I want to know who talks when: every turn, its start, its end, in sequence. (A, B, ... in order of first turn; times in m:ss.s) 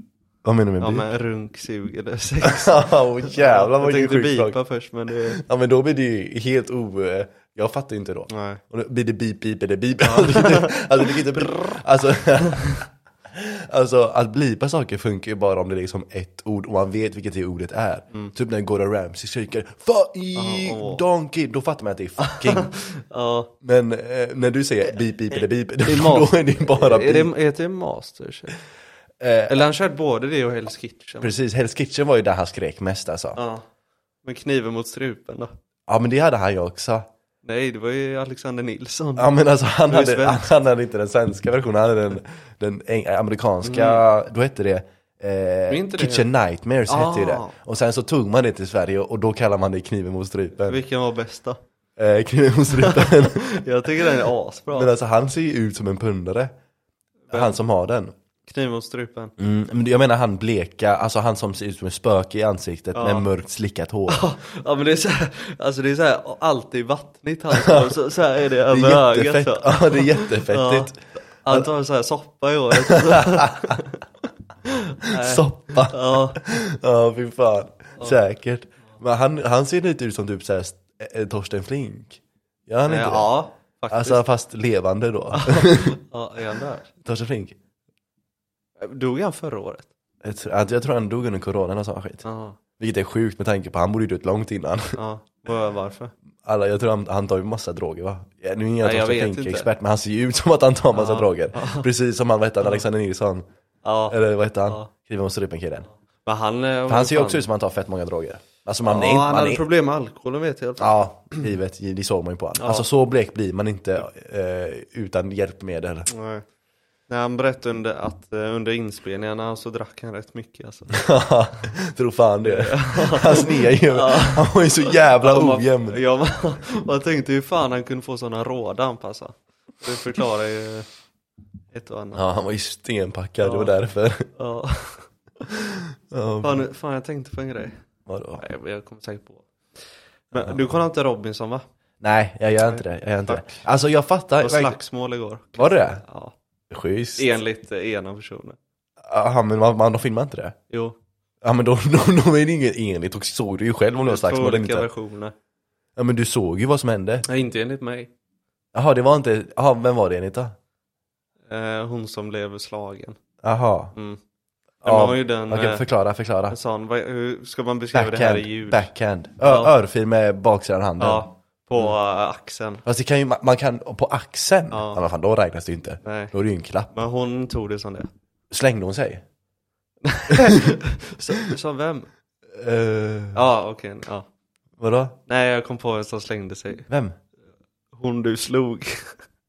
0:00.4-0:01.1 A
0:00.8-0:05.4 B
0:02.4-0:22.7 A
0:08.3-0:08.6 B
0:10.0-0:11.7 B
0:20.4-0:21.0 B
0:22.2-0:23.5 B
0:23.6-0:27.3 A
0:25.9-0:28.6 B
0:29.2-0:29.6 A
0:29.5-0:31.3 B
0:31.2-0:33.4 A
0:33.4-0:33.6 B
0:34.2-0:35.5 B
0:35.9-0:37.1 A
0:37.4-0:39.3 B
0:39.2-0:50.8 A
0:39.9-0:40.5 B
0:43.6-0:44.0 B
0:45.7-0:46.3 B
0:46.9-0:47.5 B
0:50.7-0:51.6 B
0:52.0-0:53.4 A
0:52.8-0:54.9 B
0:54.7-0:56.5 A
0:57.3-0:57.6 B
0:57.3-0:58.2 A
0:58.5-0:59.3 B
0:59.4-1:04.3 A
1:03.0-1:03.3 B
1:04.1-1:14.0 B
1:08.7-1:11.7 A
1:12.8-1:13.7 A
1:15.0-1:16.4 B
1:15.2-1:23.4 A
1:22.8-1:24.2 B
1:23.9-1:26.0 A
1:25.3-1:26.9 B
1:27.0-1:27.6 A
1:28.8-1:29.9 B
1:30.2-1:32.2 A
1:32.2-1:32.6 B
1:32.8-1:35.0 A
1:35.0-1:36.1 B
1:36.4-1:43.5 A
1:38.8-1:39.7 B
1:40.9-1:41.9 B
1:43.8-1:44.9 B
1:44.1-1:45.9 A
1:46.3-1:47.5 B
1:46.9-1:49.6 A
1:48.8-1:51.4 B
1:50.8-1:56.1 A
1:52.6-1:52.8 B
1:56.1-1:56.4 B
1:57.1-2:01.0 B
2:01.0-2:06.0 A
2:02.4-2:10.9 B
2:11.7-2:12.2 B
2:12.1-2:14.2 A
2:13.4-2:13.7 B
2:14.4-2:15.1 B
2:16.1-2:16.6 A
2:16.4-2:17.8 B
2:18.1-2:18.4 A
2:18.4-2:21.7 B
2:20.3-2:20.6 A
2:22.0-2:24.8 A
2:22.6-2:23.6 B
2:24.4-2:26.3 B
2:25.6-2:26.0 A
2:26.7-2:27.3 A
2:27.2-2:28.6 B
2:29.0-2:30.6 A
2:30.7-2:31.0 B
2:31.4-2:34.9 A
2:34.0-2:35.3 B
2:36.0-2:37.2 A
2:37.3-2:38.1 B
2:38.7-2:40.6 A
2:41.5-2:43.2 B
2:43.4-2:44.0 A
2:44.0-2:44.2 B
2:44.8-2:46.6 A
2:44.8-2:45.8 B
2:46.5-2:48.9 B
2:47.9-2:51.9 A
2:49.4-2:49.7 B
2:51.0-2:52.8 B
2:52.8-2:56.9 A
2:54.7-2:55.0 B
2:56.0-2:56.3 B
2:56.9-2:58.1 B
2:58.5-2:59.2 A
3:00.1-3:02.1 B
3:02.5-3:03.4 A
3:03.3-3:04.3 B
3:04.8-3:05.2 A
3:05.3-3:06.9 B
3:06.9-3:07.2 A
3:08.0-3:09.2 B